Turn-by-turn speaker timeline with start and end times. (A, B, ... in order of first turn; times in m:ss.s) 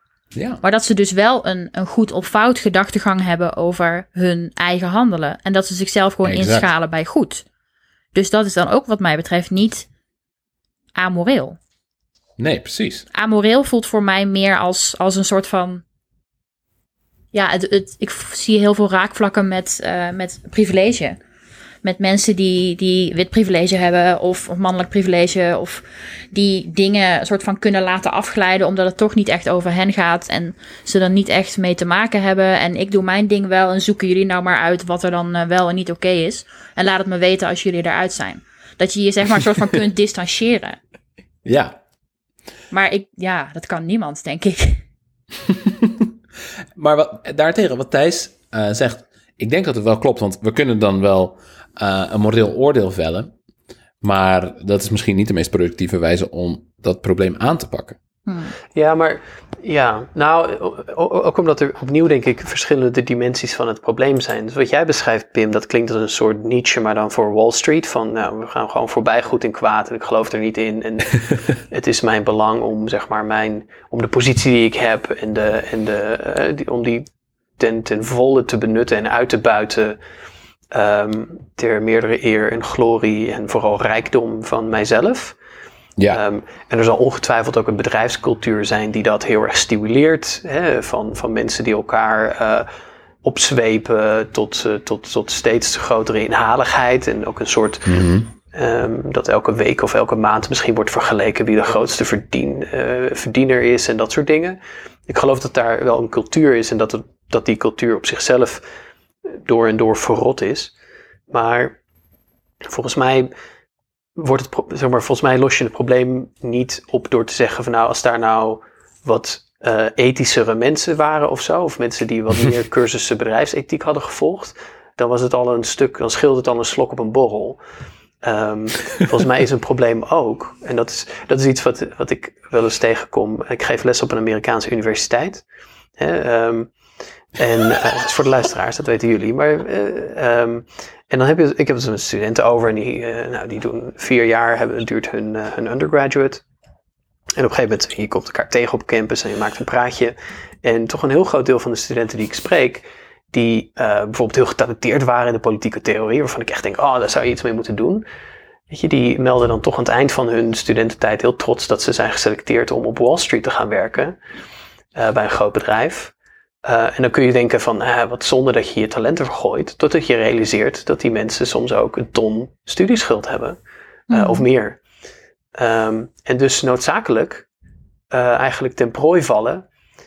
0:00.3-0:00.6 A
0:00.6-0:07.4 B
0:06.2-0:06.7 A
0:08.1-0:09.9 B
0:10.9-0:11.6 B
0:12.4-0:13.0 A
0:13.1-0:15.8 B
0:17.3-0:21.2 B
0:21.8-0:40.8 B
0:41.4-0:41.8 A
0:42.7-0:44.8 B
0:45.5-0:46.1 A
0:46.8-0:53.3 A
0:54.0-0:58.0 A
0:58.3-0:58.5 B
0:58.7-1:17.0 C
1:17.6-1:20.0 C
1:20.7-1:25.4 C
1:26.1-1:32.7 C
1:33.2-1:48.6 C
1:37.8-1:38.3 A
1:49.3-1:50.7 C
1:51.3-1:51.8 C
1:52.6-1:53.3 C
1:54.2-2:07.6 C
2:08.2-2:15.4 C
2:16.0-2:16.7 C
2:17.4-2:26.4 C
2:27.4-2:38.0 C
2:38.7-2:44.2 C
2:44.9-2:46.1 C
2:46.6-2:53.6 C
2:54.1-2:54.4 B
2:54.1-2:54.8 C
2:55.5-2:57.4 C
2:58.1-2:59.6 C